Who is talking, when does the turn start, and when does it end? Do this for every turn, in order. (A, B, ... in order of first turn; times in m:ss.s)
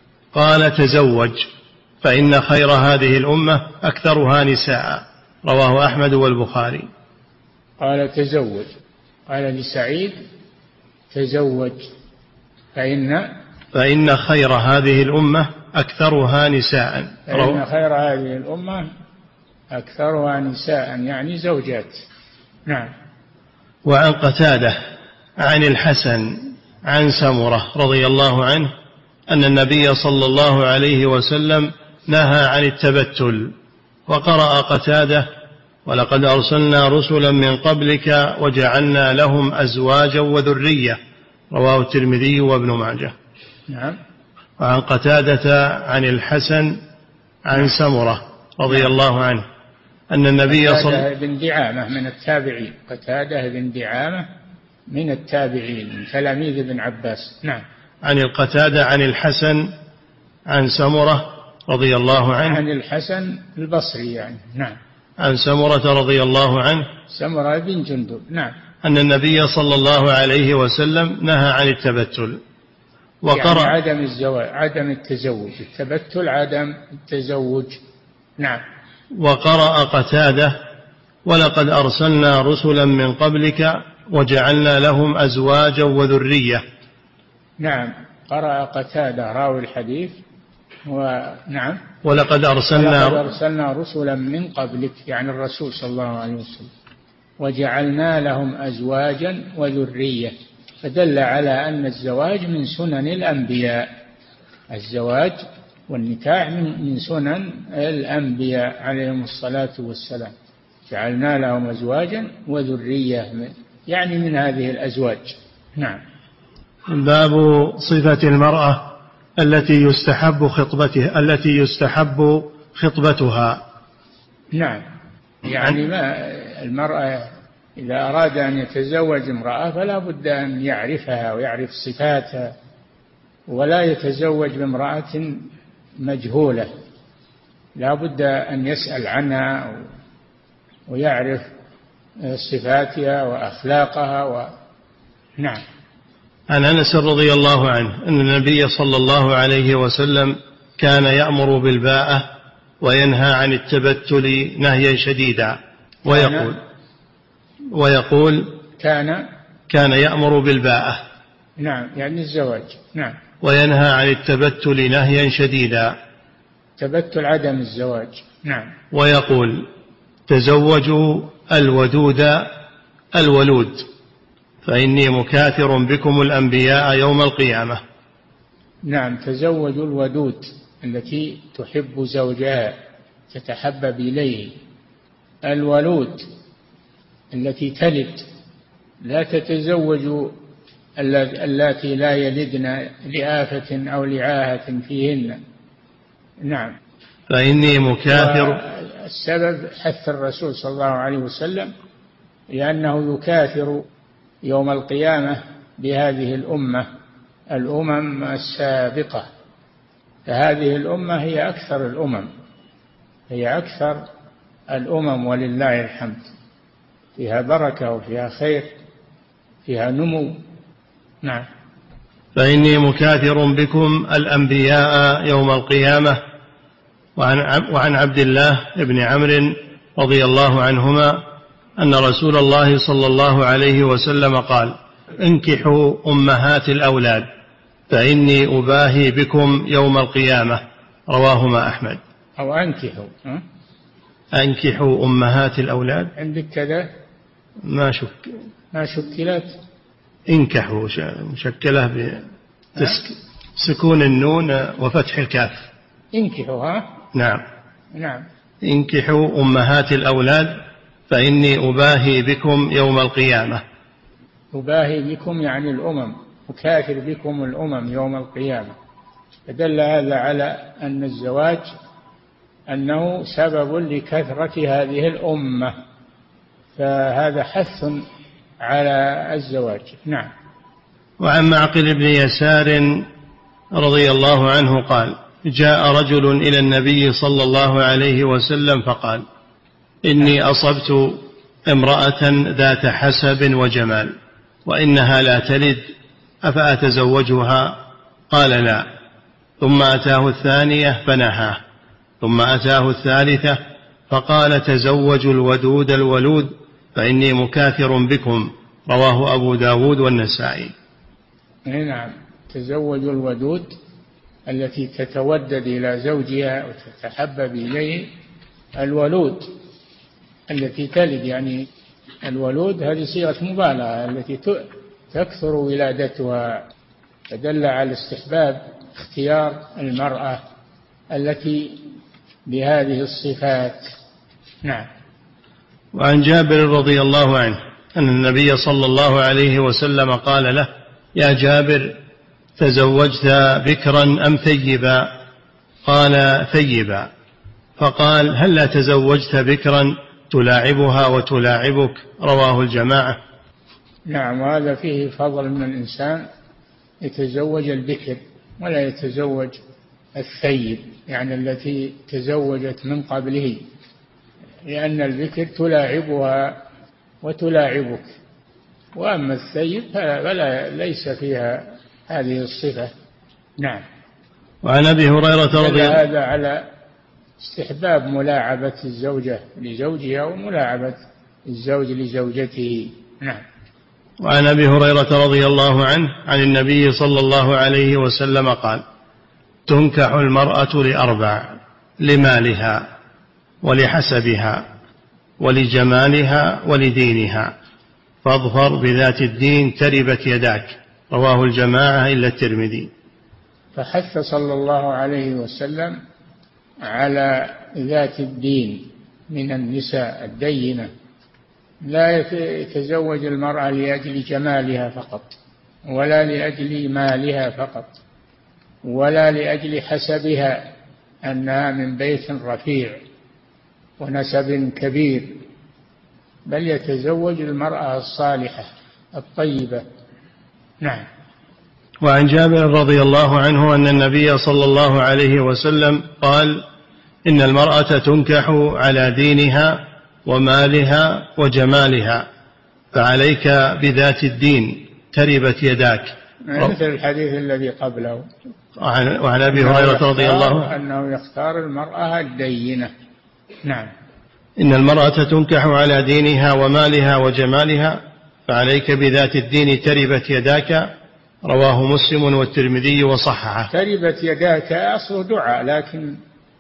0:00.3-0:01.4 A
0:02.0-0:06.9 A
0:07.8-0:08.7 B
0:09.3-0:10.2 B
0:11.1-0:11.9 B
0:12.8-0:13.3 B
0:13.7-0:17.6 A
0:17.3-0:18.9 B
0:19.7-0:22.0 B
0:23.8-0:24.8 A
0:25.4-0:28.7 A
0:29.3-0:33.5 A
0:34.1-0:35.3 A
0:35.9-0:41.0 A
0:41.5-0:43.1 A
0:43.7-0:44.0 B
0:44.6-0:46.8 A
0:47.5-0:49.4 A
0:50.1-0:51.0 A
0:50.5-0:54.3 B
0:54.9-0:57.6 B
0:58.0-0:59.7 A
1:00.5-1:02.6 A
1:02.5-1:04.8 B
1:05.2-1:06.9 A
1:07.1-1:08.5 B
1:08.8-1:12.4 A
1:13.2-1:13.8 A
1:13.3-1:17.8 B
1:19.2-1:20.6 A
1:21.3-1:26.6 A
1:27.6-1:30.2 B
1:30.9-1:31.8 B
1:32.0-1:33.2 A
1:32.8-1:36.7 B
1:37.4-1:43.9 B
1:44.7-1:50.3 B
1:50.9-1:56.0 B
1:56.9-2:03.6 A
2:04.5-2:04.8 B
2:05.5-2:12.5 B
2:13.5-2:15.4 B
2:16.0-2:16.7 B
2:17.8-2:19.9 B
2:20.9-2:21.5 B
2:22.3-2:24.5 B
2:26.5-2:32.3 A
2:32.8-2:36.6 A
2:36.0-2:36.5 B
2:37.7-2:38.6 A
2:38.8-2:39.2 B
2:39.7-2:41.0 A
2:41.6-2:43.2 B
2:43.4-2:46.0 A
2:46.8-2:48.7 B
2:48.9-2:49.7 A
2:50.3-2:52.5 A
2:53.1-2:53.9 A
2:54.6-2:57.8 A
2:58.9-3:02.8 B
3:03.3-3:04.6 B
3:05.4-3:06.3 B
3:07.3-3:08.3 B
3:09.0-3:10.4 B
3:11.0-3:15.4 B
3:16.4-3:16.8 B
3:17.3-3:18.6 A
3:18.1-3:21.7 B
3:22.5-3:23.8 B
3:24.4-3:26.9 B
3:27.5-3:29.3 B
3:30.3-3:32.3 B
3:33.3-3:34.0 B
3:34.7-3:36.3 B
3:37.2-3:38.7 B
3:39.7-3:40.4 B
3:42.4-3:46.2 A
3:47.2-3:51.2 A
3:51.8-3:57.3 A
3:57.9-4:02.0 A
4:02.4-4:03.4 B
4:04.3-4:06.1 A
4:06.2-4:06.9 B
4:07.6-4:08.3 A
4:08.7-4:09.5 B
4:10.3-4:15.6 A
4:16.1-4:16.8 B
4:17.1-4:17.4 A
4:17.9-4:18.3 B
4:18.6-4:23.6 A
4:24.5-4:28.7 B
4:29.5-4:31.7 B
4:32.7-4:35.8 B
4:36.8-4:38.0 B
4:38.6-4:40.3 B
4:41.2-4:43.1 A
4:43.8-4:49.2 A
4:50.0-4:54.1 A
4:54.7-4:55.8 A
4:56.4-4:57.8 A
4:58.3-4:58.9 A
4:59.6-5:01.6 A
5:02.2-5:10.7 A
5:11.7-5:13.8 B
5:14.5-5:18.1 B
5:18.8-5:19.5 B
5:20.5-5:21.7 B
5:22.2-5:26.6 B
5:27.3-5:30.4 B
5:31.1-5:31.8 B
5:32.5-5:33.9 B
5:35.9-5:42.0 A
5:42.6-5:45.1 A
5:45.8-5:47.1 A
5:47.8-5:53.2 A
5:54.1-5:56.2 B
5:57.0-5:59.6 B
6:00.2-6:03.6 B
6:04.7-6:06.6 B
6:07.2-6:08.2 B
6:09.0-6:12.9 B
6:13.6-6:13.8 B
6:14.6-6:16.0 A
6:15.5-6:16.7 B
6:17.4-6:23.4 B
6:24.2-6:28.8 A
6:29.7-6:32.9 A
6:33.6-6:34.6 A
6:35.4-6:37.5 A
6:38.2-6:42.9 A
6:43.8-6:46.0 B
6:46.8-6:50.9 B
6:51.8-6:55.4 B
6:55.9-6:58.0 B
6:58.8-7:00.7 B
7:01.2-7:03.0 B
7:04.0-7:05.4 B
7:06.5-7:09.8 B
7:10.8-7:11.1 B
7:12.0-7:16.6 A
7:17.3-7:22.2 A
7:22.9-7:26.7 A
7:26.5-7:28.3 B
7:28.8-7:30.7 A
7:29.5-7:32.9 B
7:33.6-7:33.9 B
7:34.6-7:40.9 A
7:41.4-7:43.7 A
7:43.7-7:46.2 B